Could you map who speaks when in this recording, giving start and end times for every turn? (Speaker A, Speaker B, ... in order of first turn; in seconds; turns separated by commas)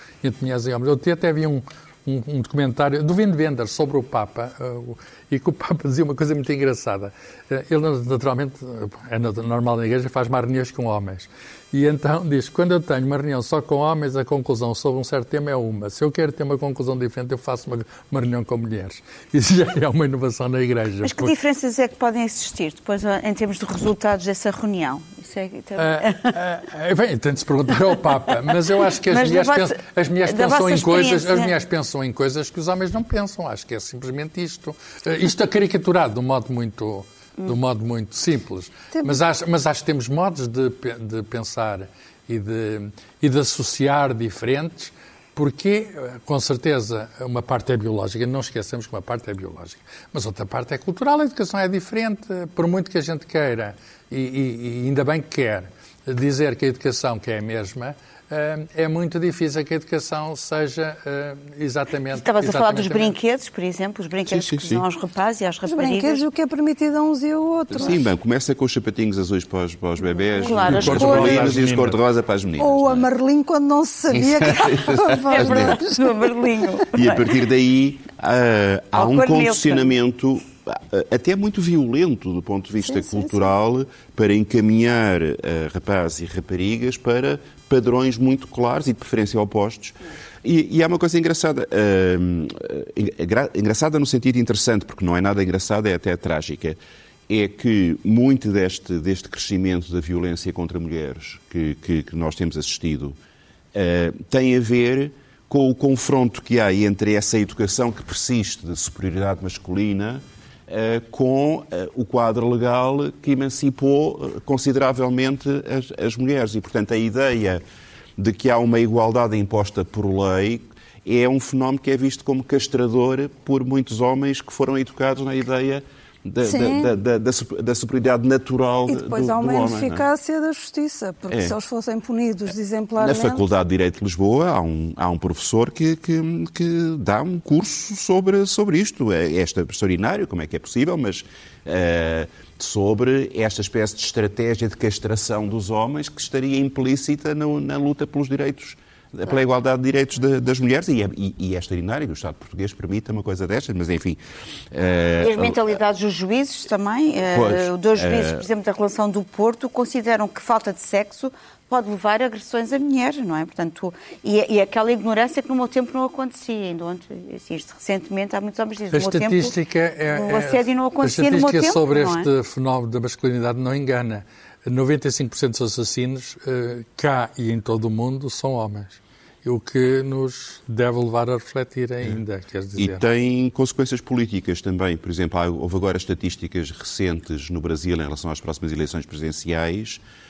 Speaker A: 0.2-21.3, Speaker B: 21.0-26.4, Speaker A: 25.8-63.1, Speaker B: 29.0-31.5, Speaker C: 38.9-39.2, Speaker B: 62.1-66.2, Speaker D: 64.3-64.8, Speaker C: 65.7-68.0, Speaker D: 67.7-73.1, Speaker B: 70.3-71.5, Speaker A: 70.7-72.0, Speaker C: 72.6-76.3, Speaker D: 74.1-75.8, Speaker B: 75.3-77.3, Speaker D: 76.9-103.2, Speaker B: 78.9-79.9, Speaker C: 82.8-83.5, Speaker D: 103.7-117.6, Speaker D: 118.2-130.0, Speaker C: 126.4-126.9, Speaker C: 128.9-133.4, Speaker D: 131.3-131.5, Speaker D: 133.0-154.2, Speaker D: 154.7-155.8, Speaker B: 155.2-169.5, Speaker D: 157.3-158.4, Speaker A: 168.9-183.0, Speaker B: 170.1-172.3, Speaker D: 182.8-190.0